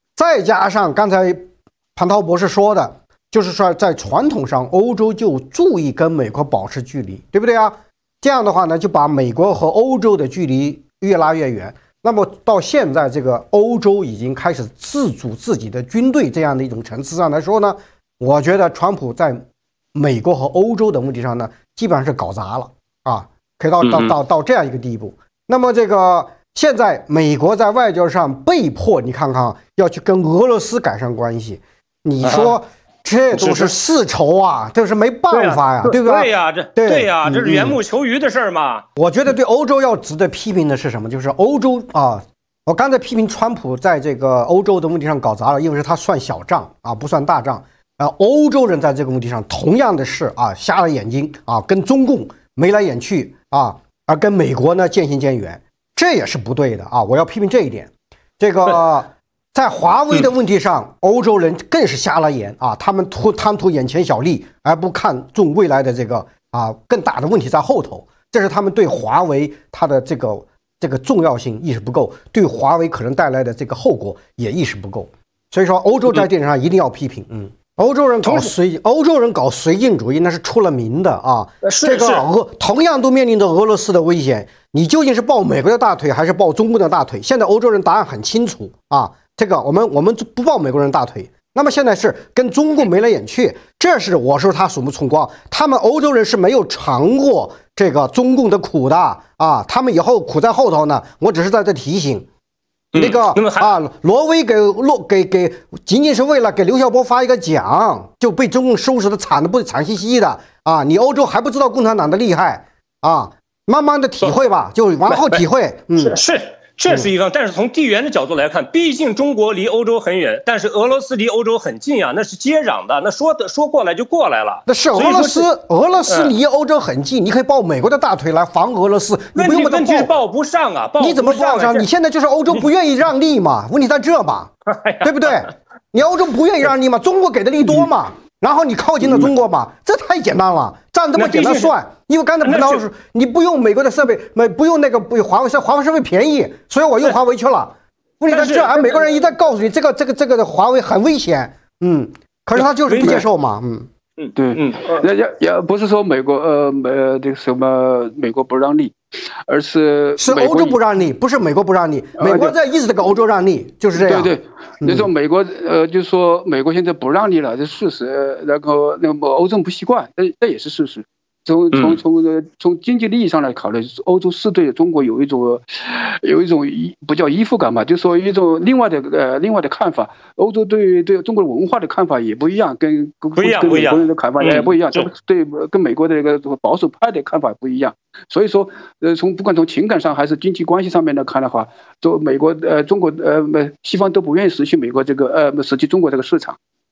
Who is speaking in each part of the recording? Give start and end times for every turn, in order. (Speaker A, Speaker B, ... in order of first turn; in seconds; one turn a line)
Speaker A: 0.1-37.8
Speaker B: 23.8-24.1
Speaker B: 32.2-32.5
Speaker B: 33.3-33.7
Speaker B: 35.3-38.9
Speaker A: 39.0-102.3
Speaker B: 78.2-78.5
Speaker B: 81.6-82.2
Speaker B: 102.9-103.7
Speaker A: 102.9-116.2
Speaker B: 115.1-115.4
Speaker B: 116.0-125.5
Speaker A: 124.7-130.1
Speaker B: 129.3-131.9
Speaker A: 131.0-153.9
Speaker B: 134.7-135.5
Speaker B: 141.2-141.7
Speaker B: 142.4-142.8
Speaker B: 148.3-149.1
Speaker B: 152.8-153.2
Speaker B: 154.2-155.1
Speaker C: 154.3-160.8
Speaker A: 160.2-165.1
Speaker C: 162.2-162.5
Speaker C: 163.9-196.6
Speaker B: 171.7-172.0
Speaker B: 183.3-185.1